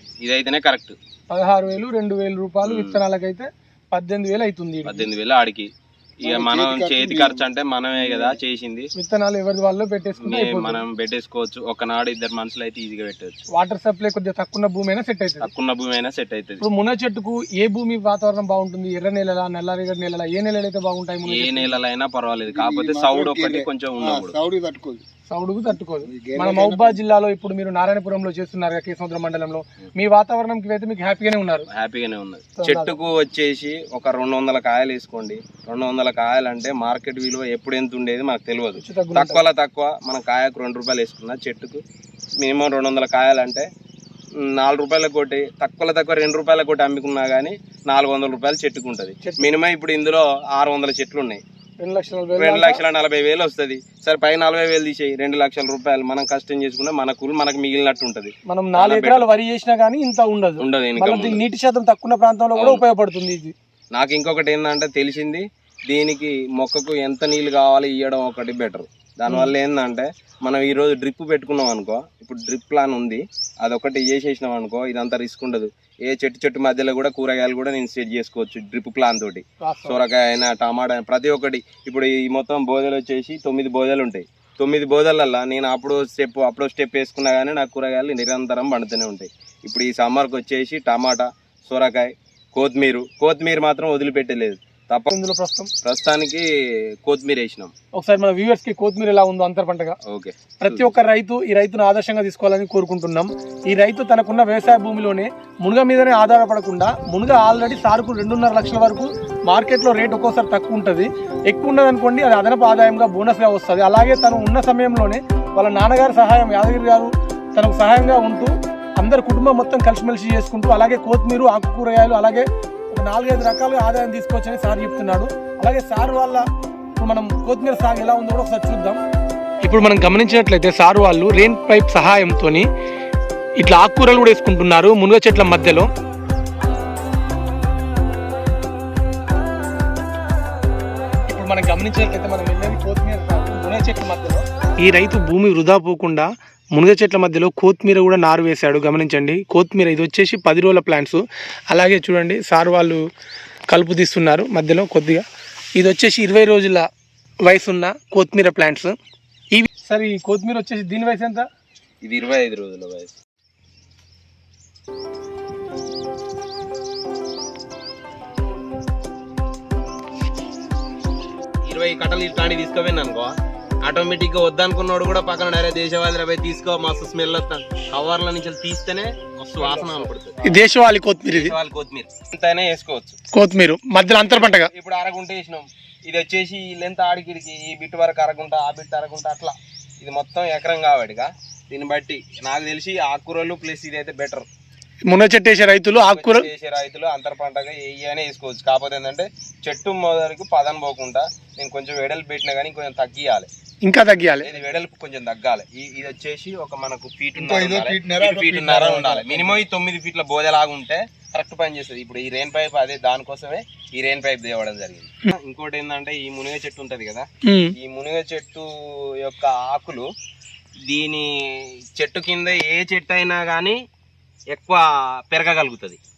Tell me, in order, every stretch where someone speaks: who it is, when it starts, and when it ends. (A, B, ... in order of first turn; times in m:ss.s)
0:00.2-0:01.0 A
0:01.3-0:05.0 B
0:02.6-0:03.0 A
0:04.8-0:05.7 A
0:06.2-0:07.4 C
0:06.2-0:08.9 A
0:08.0-0:08.4 C
0:08.9-0:10.8 B
0:10.1-0:13.4 A
0:13.5-0:15.5 B
0:15.4-0:16.6 A
0:16.6-0:21.7 B
0:21.3-0:24.4 A
0:22.5-0:25.0 C
0:25.3-0:31.7 B
0:26.1-0:27.0 C
0:31.7-0:41.8 A
0:32.6-0:32.9 B
0:38.8-0:39.4 B
0:42.4-0:43.7 A
0:44.4-0:51.4 A
0:49.2-0:49.5 B
0:51.8-0:52.8 B
0:52.3-0:59.3 A
0:58.5-1:03.5 B
1:00.6-1:01.4 A
1:02.6-1:02.8 A
1:03.9-1:35.1 A
1:19.6-1:20.0 B
1:35.1-1:35.7 B
1:35.8-1:36.4 A
1:37.0-1:37.7 A
1:38.0-1:40.0 B
1:40.1-1:40.9 A
1:40.6-2:06.4 B
2:07.0-2:09.0 B
2:09.6-2:12.6 B
2:13.6-2:15.9 B
2:21.3-2:33.0 B
2:33.7-2:35.2 B
2:35.8-2:36.9 B
2:37.4-2:38.9 B
2:39.5-2:41.5 B
2:42.0-2:43.2 A
2:51.6-3:00.4 A
3:00.4-3:01.5 B
3:01.3-3:03.2 A
3:03.3-3:04.7 B
3:04.5-3:14.4 A
3:15.1-3:16.5 B
3:16.0-3:23.5 A
3:23.8-3:24.5 B
3:24.4-3:37.2 A
3:27.4-3:29.5 C
3:37.4-3:37.7 B
3:37.8-3:40.1 A
3:40.9-3:43.8 A
3:44.5-3:46.0 A